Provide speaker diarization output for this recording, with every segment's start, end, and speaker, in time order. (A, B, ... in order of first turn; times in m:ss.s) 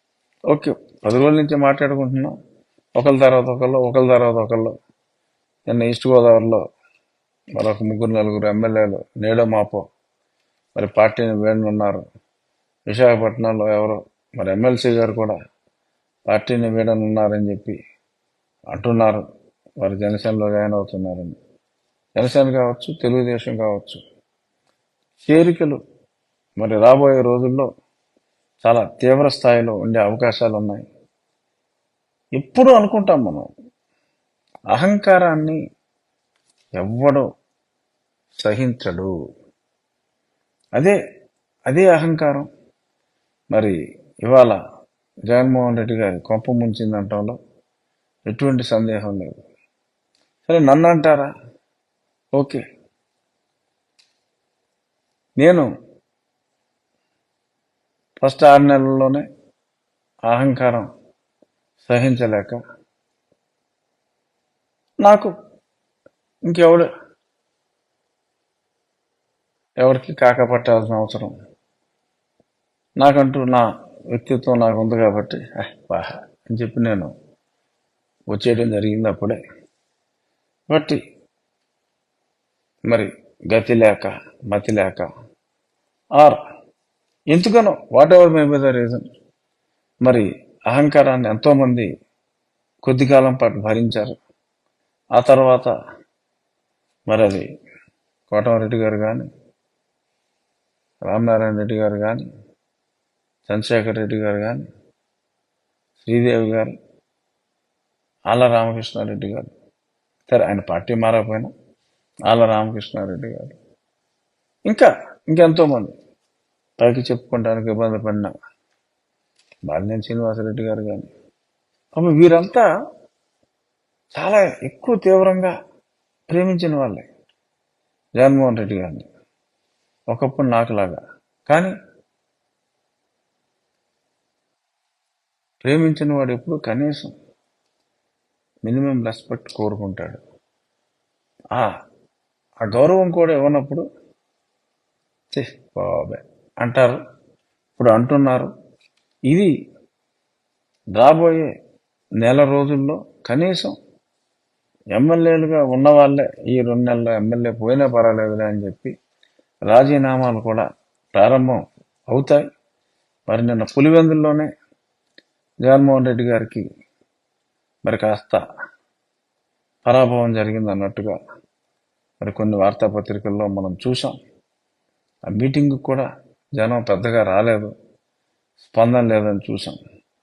0:00.5-0:02.3 A
0:03.0-0:04.7 A
0:05.7-0:06.6 A
0:07.6-0:09.8 A
0:10.8-0:12.0 A
0:12.9-0:15.4 A
0:16.3-0:17.8 A
0:18.7-0:19.2 A
0:19.8-0:21.4 A
0:22.2-0:24.0 A
0:25.2-0:25.8 A
0:26.6-0:27.7 A
0:28.6-0:30.8 A
0:32.4-0:33.5 A
0:34.7-0:35.6 A
0:36.8-0:37.2 A
0:38.4-0:39.1 A
0:41.7-0:42.5 A
0:43.5-0:44.6 A
0:45.3-0:47.4 A
0:48.3-0:49.4 A
0:50.5-0:51.3 A
0:52.4-0:52.6 A
0:55.4-0:55.7 A
0:58.2-0:59.2 A
1:00.3-1:00.9 A
1:01.8-1:02.6 A
1:05.0-1:05.3 A
1:06.5-1:06.9 A
1:09.8-1:11.3 A
1:13.0-1:17.1 A
1:18.3-1:19.4 A
1:20.7-1:21.0 A
1:22.9-1:25.1 A
1:27.3-1:29.0 A
1:30.0-1:31.9 A
1:32.8-1:34.2 A
1:35.2-1:35.7 A
1:37.1-1:37.4 A
1:38.3-1:39.3 A
1:41.0-1:42.3 A
1:43.5-1:44.7 A
1:46.0-1:46.7 A
1:48.3-1:49.5 A
1:50.3-1:51.5 A
1:52.3-1:53.6 A
1:54.7-1:55.9 A
1:56.8-1:58.3 A
1:59.7-2:01.1 A
2:02.0-2:02.7 A
2:04.1-2:05.5 A
2:06.3-2:07.0 A
2:08.2-2:09.1 A
2:10.1-2:11.7 A
2:15.6-2:17.1 A
2:18.6-2:20.2 A
2:22.6-2:23.8 A
2:25.3-2:27.0 A
2:27.8-2:28.5 A
2:31.0-2:31.5 A
2:32.2-2:33.8 A
2:35.0-2:38.9 A
2:39.7-2:42.4 A
2:43.3-2:44.5 A
2:45.6-2:46.6 A
2:47.8-2:48.4 A
2:49.8-2:51.2 A
2:52.2-2:54.2 A
2:55.3-2:57.7 A
2:58.6-2:59.8 A